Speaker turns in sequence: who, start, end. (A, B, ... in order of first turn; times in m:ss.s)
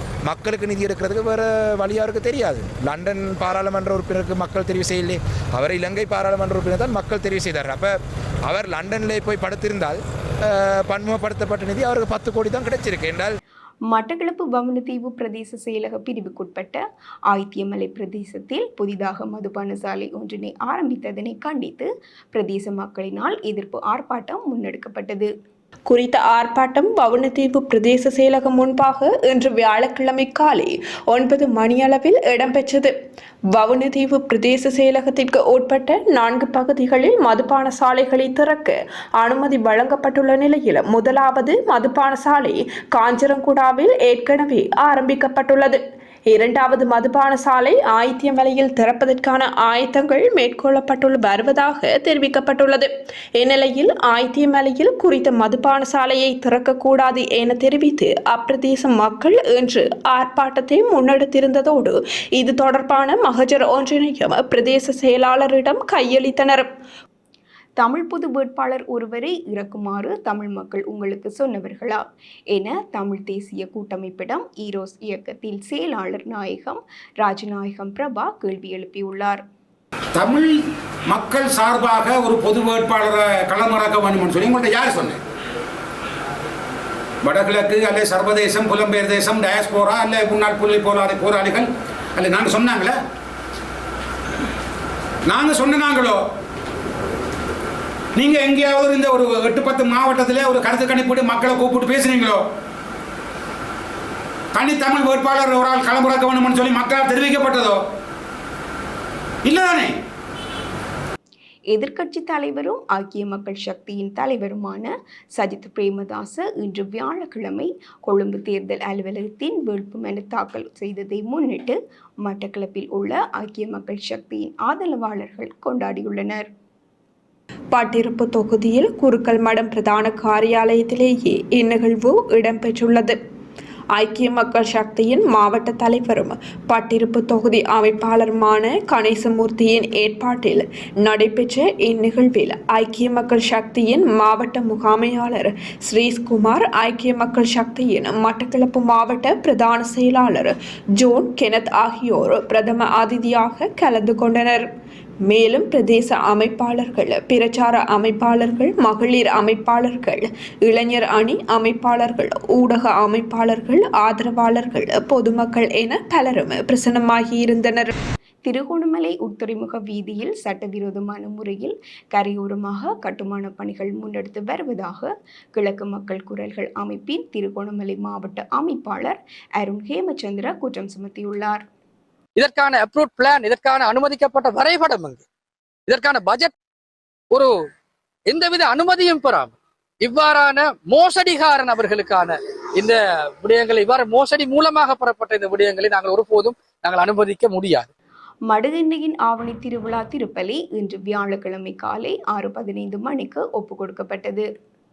0:00.3-0:07.9 A
0:08.5-0:10.0 A
0:10.5-0:13.4 A
0:13.9-0:16.8 B
0:17.3-0:21.8 B
0:22.5-0:25.3 B
0:25.9-0:32.9 C
0:33.5-1:06.7 C
1:07.8-1:12.0 B
1:12.6-1:19.4 B
1:20.2-1:25.2 D
1:27.2-1:33.0 D
1:35.3-1:36.2 D
1:38.2-1:42.4 D
1:44.5-1:47.8 D
1:49.4-1:50.0 D
1:51.7-2:06.5 B
2:07.7-2:13.2 C
2:14.0-2:34.7 C
2:35.2-2:47.9 C
2:48.5-2:55.1 B
2:55.6-2:59.1 B
2:59.7-3:01.6 B
3:02.4-3:05.3 E
3:05.9-3:06.6 E
3:08.3-3:17.9 E
3:18.5-3:24.4 B